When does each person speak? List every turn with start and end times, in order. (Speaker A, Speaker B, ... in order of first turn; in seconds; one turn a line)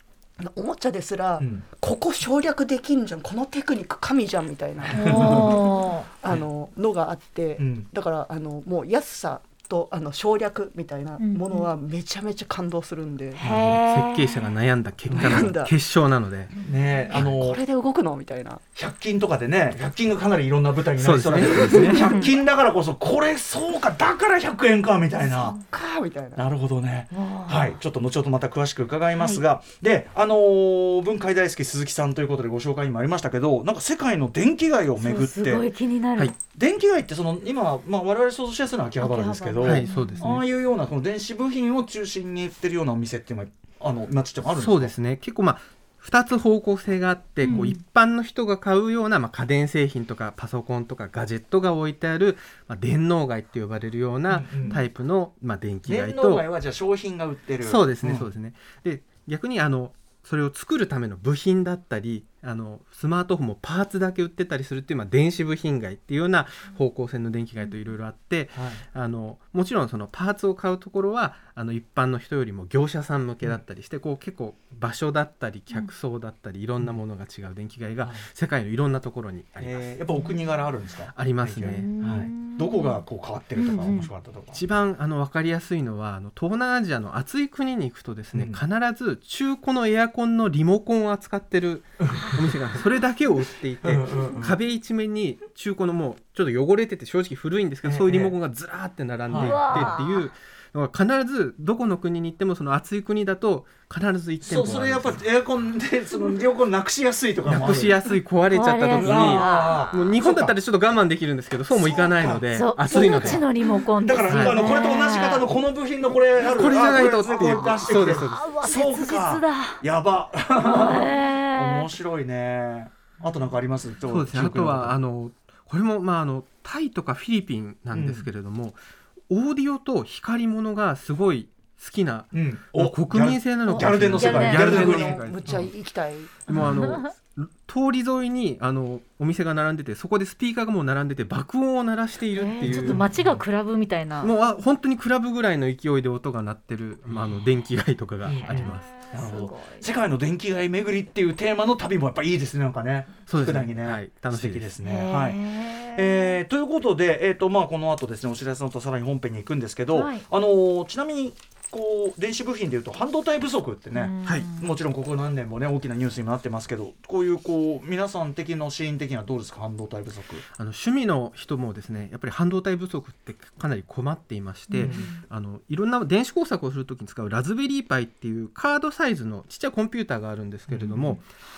Speaker A: 0.4-13.4
Speaker B: 1.4-1.6
Speaker B: 4.9-5.6
Speaker C: 4.9-6.1
Speaker B: 7.6-7.9
Speaker C: 11.2-11.7
Speaker C: 13.4-14.5
Speaker D: 13.4-16.5
Speaker B: 15.1-15.5
Speaker A: 15.1-15.7
Speaker B: 16.6-17.6
Speaker A: 17.1-18.6
Speaker B: 18.8-25.6
Speaker D: 21.0-22.1
Speaker C: 21.8-22.3
Speaker C: 25.2-25.6
Speaker A: 25.6-26.4
Speaker B: 26.4-35.7
Speaker C: 27.1-27.8
Speaker C: 29.1-29.4
Speaker C: 35.0-36.4
Speaker B: 36.5-44.9
Speaker C: 39.0-40.3
Speaker D: 39.6-40.4
Speaker D: 44.5-56.5
Speaker C: 47.4-47.8
Speaker B: 54.3-54.8
Speaker B: 55.9-58.3
Speaker D: 57.6-80.0
Speaker B: 68.5-68.8
Speaker B: 79.6-84.6
Speaker D: 81.1-82.0
Speaker C: 81.7-83.0
Speaker C: 83.6-84.1
Speaker D: 84.5-105.3
Speaker B: 88.3-88.6
Speaker B: 92.0-92.5
Speaker B: 93.8-94.6
Speaker B: 97.8-98.4
Speaker B: 99.3-100.0
Speaker C: 99.3-100.3
Speaker B: 104.4-108.0
Speaker D: 107.5-113.4
Speaker C: 108.5-109.9
Speaker B: 108.9-110.6
Speaker B: 111.9-113.5
Speaker C: 112.5-115.5
Speaker B: 114.0-125.0
Speaker D: 114.3-114.7
Speaker D: 116.5-118.5
Speaker C: 117.4-119.8
Speaker C: 120.6-121.9
Speaker D: 124.1-128.8
Speaker B: 127.9-128.3
Speaker D: 129.3-135.7
Speaker B: 132.3-135.7
Speaker C: 133.7-135.0
Speaker A: 134.5-136.5
Speaker C: 136.5-137.1
Speaker D: 136.5-143.1
Speaker C: 142.3-144.3
Speaker B: 142.6-143.4
Speaker D: 144.2-148.9
Speaker B: 148.3-170.4
Speaker C: 148.5-149.9
Speaker D: 153.3-154.7
Speaker C: 154.8-156.4
Speaker C: 159.9-160.2
Speaker C: 163.9-164.7
Speaker D: 170.6-181.2
Speaker C: 174.7-175.2
Speaker B: 174.8-175.1
Speaker B: 180.7-181.2